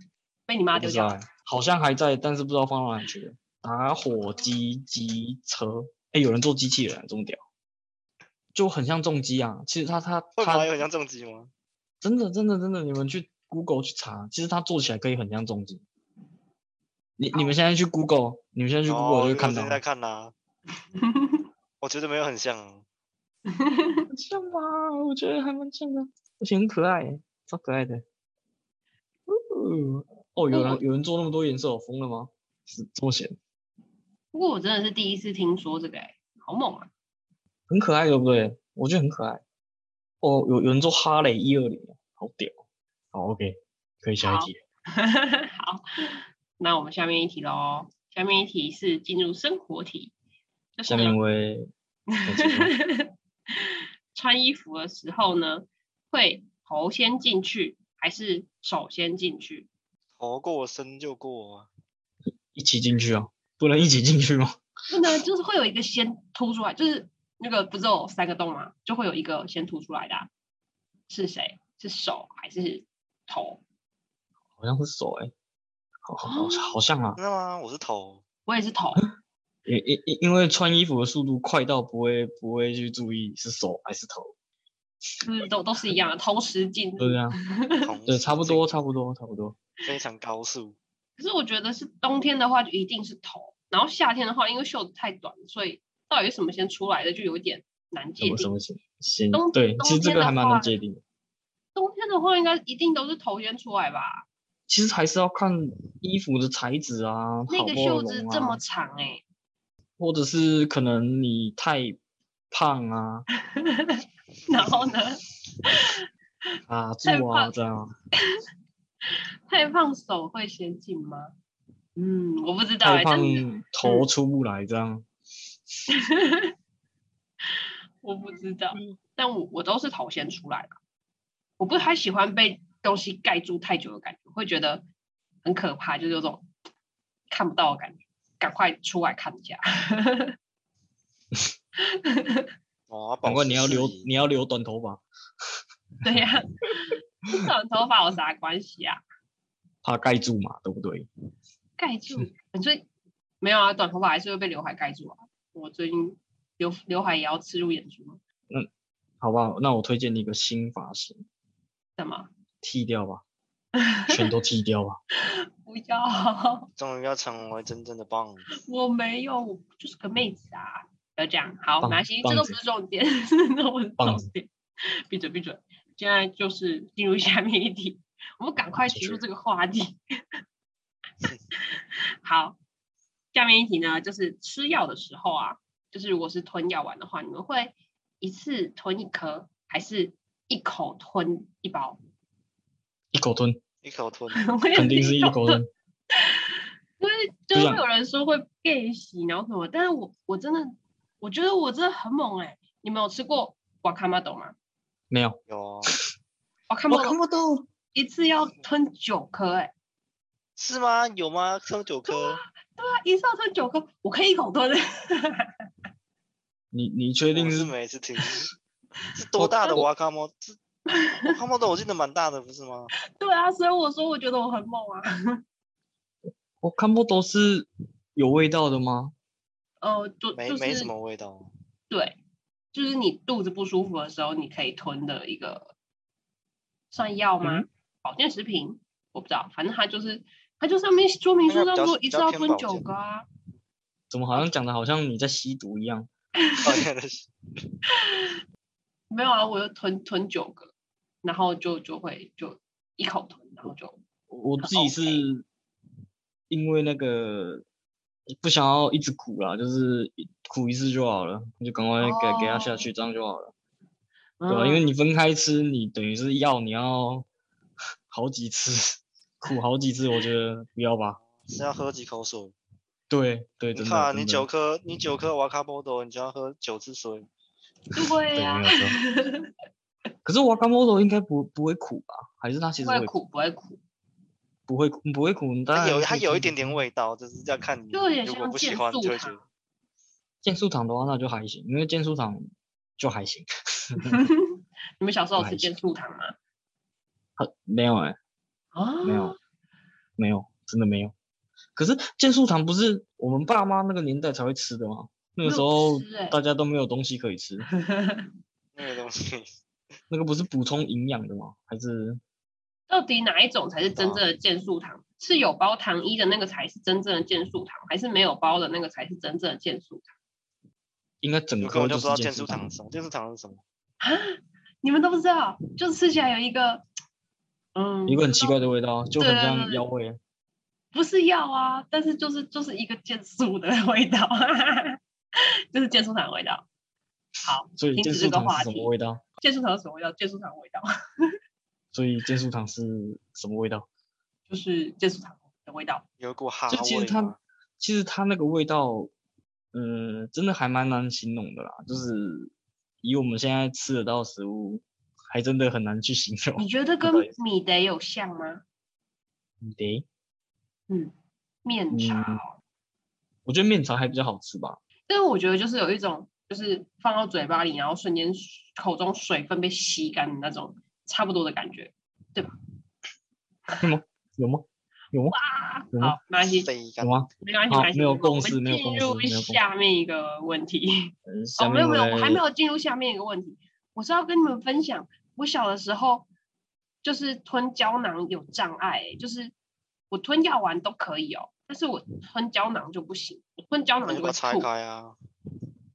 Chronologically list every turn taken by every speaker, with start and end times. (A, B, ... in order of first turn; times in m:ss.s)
0:00.5-0:01.2 A
0:00.8-0:07.4 B
0:08.6-0:10.7 B
0:10.4-0:11.5 C
0:12.0-0:15.8 B
0:17.2-0:19.8 B
0:18.9-0:20.3 C
0:20.9-0:21.4 A
0:21.8-0:22.8 C
0:23.5-0:24.0 A
0:24.1-0:28.0 B
0:29.3-0:33.4 B
0:30.5-0:30.8 A
0:34.3-0:36.9 A
0:37.7-0:39.4 B
0:40.2-0:42.5 B
0:43.1-0:44.6 B
0:44.2-0:45.8 A
0:46.6-0:50.1 A
0:50.8-0:51.2 A
0:50.9-0:51.7 B
0:52.1-0:59.7 A
0:52.2-0:52.7 B
1:00.2-1:01.7 C
1:02.5-1:04.6 B
1:04.9-1:10.3 A
1:11.1-1:13.6 A
1:14.6-1:15.3 B
1:16.0-1:17.2 B
1:16.2-1:16.8 A
1:17.2-1:18.2 C
1:18.5-1:19.0 A
1:19.7-1:24.3 B
1:25.2-1:27.9 A
1:27.0-1:27.4 B
1:27.8-1:28.7 C
1:28.1-1:29.6 B
1:29.8-1:30.8 C
1:31.2-1:38.5 A
1:38.2-1:41.0 B
1:39.3-1:40.8 A
1:41.8-1:44.3 A
1:44.7-1:48.6 B
1:47.5-1:49.2 A
1:50.0-1:52.0 B
1:52.5-1:53.3 B
1:53.6-1:56.0 A
1:54.5-1:54.9 C
1:56.7-1:57.9 B
1:57.0-1:57.6 A
1:59.5-2:01.3 A
2:02.0-2:04.1 A
2:02.8-2:05.1 B
2:05.9-2:06.5 A
2:07.5-2:10.7 A
2:11.6-2:14.8 A
2:15.4-2:16.5 A
2:17.3-2:20.3 A
2:21.8-2:22.5 A
2:22.9-2:24.1 C
2:23.2-2:25.0 B
2:26.0-2:29.0 A
2:29.8-2:31.1 B
2:31.8-2:32.8 A
2:33.4-2:38.2 A
2:39.2-2:41.2 B
2:42.0-2:42.3 A
2:42.6-2:43.2 B
2:43.8-2:44.1 A
2:44.1-2:45.0 B
2:45.2-2:46.7 A
2:46.8-2:48.5 C
2:48.6-3:00.0 A
2:51.8-2:52.6 B
2:54.0-2:54.3 B
2:58.9-2:59.2 B
3:01.8-3:02.6 A
3:03.3-3:12.0 A
3:13.1-3:13.6 B
3:13.8-3:14.6 C
3:14.3-3:15.6 A
3:14.8-3:15.7 B
3:16.2-3:24.5 A
3:17.5-3:17.8 B
3:25.1-3:25.4 B
3:25.5-3:25.9 C
3:26.7-3:27.2 A
3:26.9-3:27.7 B
3:27.9-3:29.7 A
3:30.6-3:32.4 C
3:32.1-3:35.5 A
3:36.7-3:37.7 B
3:37.3-3:38.5 C
3:39.2-3:40.6 C
3:39.4-3:39.8 B
3:40.9-3:41.3 A
3:41.2-3:42.9 C
3:43.2-3:45.4 A
3:46.3-3:49.1 B
3:49.8-3:50.9 A
3:50.4-3:51.5 C
3:51.9-3:52.2 A
3:52.7-3:55.7 A
3:56.9-4:03.3 A
4:01.5-4:02.9 C
4:04.1-4:06.1 B
4:06.4-4:06.8 A
4:06.6-4:07.3 C
4:07.9-4:08.4 A
4:09.1-4:10.7 A
4:11.2-4:14.0 A
4:14.3-4:15.4 B
4:14.6-4:15.3 A
4:16.5-4:17.6 B
4:18.3-4:23.5 B
4:22.0-4:22.9 A
4:24.4-4:24.9 A
4:24.5-4:27.3 B
4:28.1-4:31.2 B
4:31.4-4:32.6 C
4:33.1-4:34.5 B
4:33.8-4:37.3 C
4:38.0-4:39.5 A
4:38.4-4:39.0 B
4:40.2-4:43.1 B
4:42.8-4:43.8 A
4:44.7-4:46.8 B
4:45.7-4:49.4 C
4:47.9-4:49.4 A
4:50.4-4:52.4 B
4:53.0-4:54.2 B
4:54.1-4:56.3 A
4:55.4-4:55.7 B
4:57.4-4:58.2 B
4:58.7-4:59.4 A
4:59.0-4:59.4 B
5:00.2-5:01.1 B
5:01.8-5:07.7 B
5:05.4-5:06.4 A
5:07.8-5:08.3 A
5:08.8-5:09.5 C
5:10.1-5:12.2 B
5:12.9-5:20.1 A
5:13.9-5:14.2 C
5:21.2-5:22.7 B
5:21.6-5:23.6 C
5:24.0-5:26.8 A
5:27.8-5:28.5 A
5:28.1-5:30.2 B
5:29.2-5:29.8 A
5:30.9-5:35.0 A
5:35.7-5:36.6 A
5:37.4-5:40.9 A
5:37.8-5:39.2 B
5:41.9-5:43.9 B
5:44.5-5:46.0 A
5:46.2-5:47.4 C
5:46.7-5:49.1 B
5:49.7-5:52.5 B
5:53.0-5:57.3 B
5:56.6-5:58.6 A
5:59.6-6:00.0 B
6:01.6-6:02.6 A
6:01.9-6:02.4 B
6:03.5-6:04.8 B
6:05.1-6:12.5 A
6:13.8-6:15.4 B
6:15.3-6:16.7 A
6:15.9-6:16.2 B
6:16.6-6:17.2 C
6:17.0-6:19.6 B
6:17.4-6:26.3 A
6:21.3-6:22.4 B
6:27.0-6:29.5 A
6:30.1-6:34.7 A
6:34.0-6:35.2 C